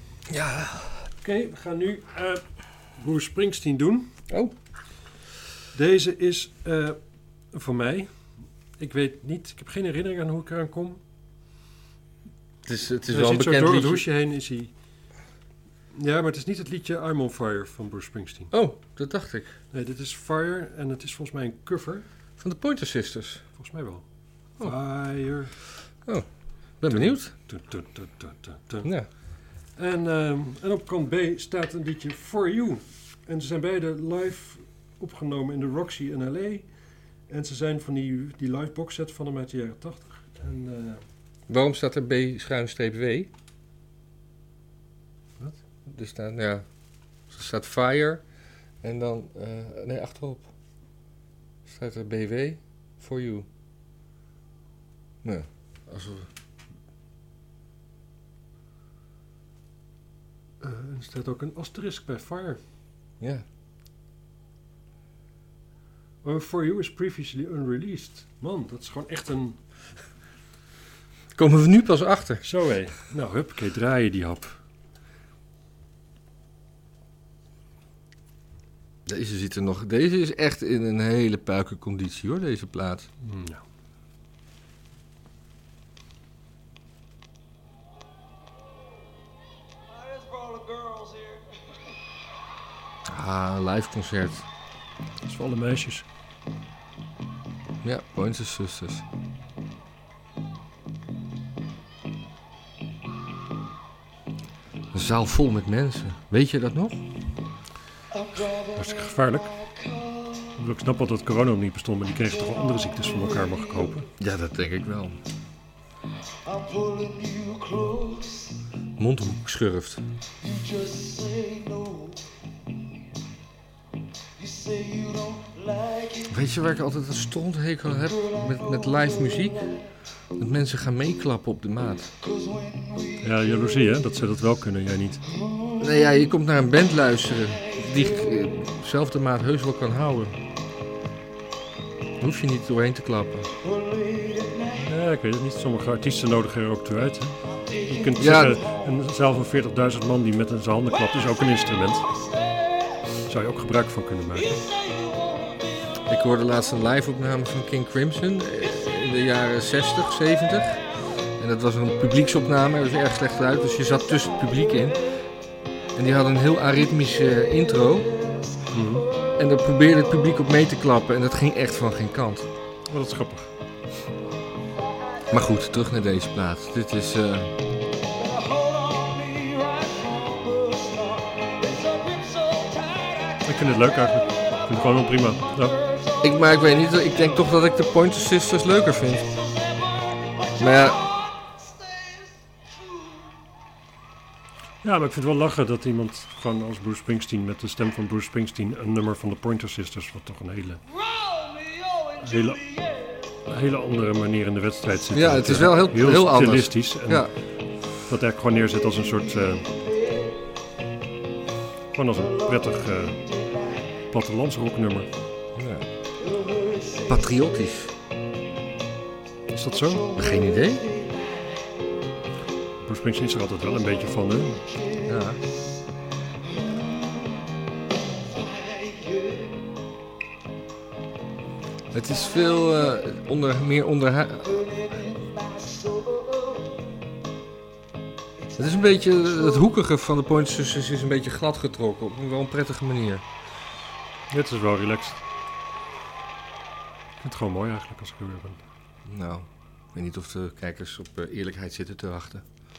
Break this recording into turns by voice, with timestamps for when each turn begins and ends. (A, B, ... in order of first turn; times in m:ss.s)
0:00.3-0:01.0 A
0:01.2-0:02.4 B
0:02.9-0:04.1 B
0:05.7-0:07.0 B
0:07.5-0:08.1 B
0:08.8-0:11.0 B
0:12.7-0:14.0 A
0:13.1-0:14.7 B
0:15.9-0:18.5 B
0:18.5-0:19.6 A
0:19.7-0:22.0 B
0:22.4-0:23.4 A
0:23.6-0:25.6 B
0:26.8-0:27.3 A
0:26.9-0:28.9 B
0:28.8-0:29.1 A
0:29.8-0:36.7 B
0:37.3-0:41.0 B
0:41.5-0:43.3 A
0:45.9-0:46.6 A
0:47.3-0:48.2 A
0:48.8-0:50.5 A
0:51.7-0:53.5 A
0:55.2-0:56.3 A
1:00.6-1:02.6 B
1:06.2-1:09.6 B
1:11.4-1:12.4 A
1:12.4-1:14.6 B
1:19.1-1:23.1 A
1:23.2-1:23.6 B
1:30.2-1:31.4 C
1:33.1-1:34.4 A
1:35.2-1:36.0 B
1:37.8-1:39.0 A
1:44.9-1:47.0 A
1:48.6-1:49.7 B
1:50.5-1:54.1 B
1:54.2-1:55.2 A
1:56.5-1:58.6 C
1:59.0-2:00.0 A
2:00.4-2:02.2 C
2:04.4-2:06.2 C
2:06.2-2:09.8 A
2:10.4-2:12.1 A
2:12.4-2:13.0 C
2:13.1-2:15.2 B
2:15.8-2:20.4 A
2:22.2-2:23.6 A
2:23.8-2:24.6 C
2:24.7-2:32.1 B
2:28.2-2:28.6 A
2:33.2-2:34.7 B
2:35.0-2:35.5 C
2:36.1-2:40.8 A
2:41.4-2:45.1 A
2:46.0-2:48.3 A
2:48.7-2:49.1 B
2:49.4-2:52.5 A
2:52.9-2:53.5 B
2:55.3-2:57.5 A
2:58.2-3:03.3 C
3:03.4-3:05.9 B
3:06.2-3:09.3 A
3:10.6-3:11.1 A
3:14.8-3:20.8 B
3:21.2-3:22.0 C
3:22.2-3:22.8 B
3:23.5-3:27.3 B
3:25.1-3:27.3 A
3:28.0-3:29.8 B
3:31.9-3:33.3 B
3:34.1-3:35.1 B
3:35.6-3:35.9 A
3:37.1-3:37.9 A
3:39.5-3:40.2 B
3:40.2-3:40.9 A
3:42.8-3:44.7 B
3:45.0-3:45.4 A
3:48.7-3:49.5 C
3:51.9-3:54.8 A
3:55.0-3:56.7 C
3:58.6-4:03.2 A
4:04.3-4:05.2 B
4:07.2-4:08.6 B
4:09.1-4:12.4 A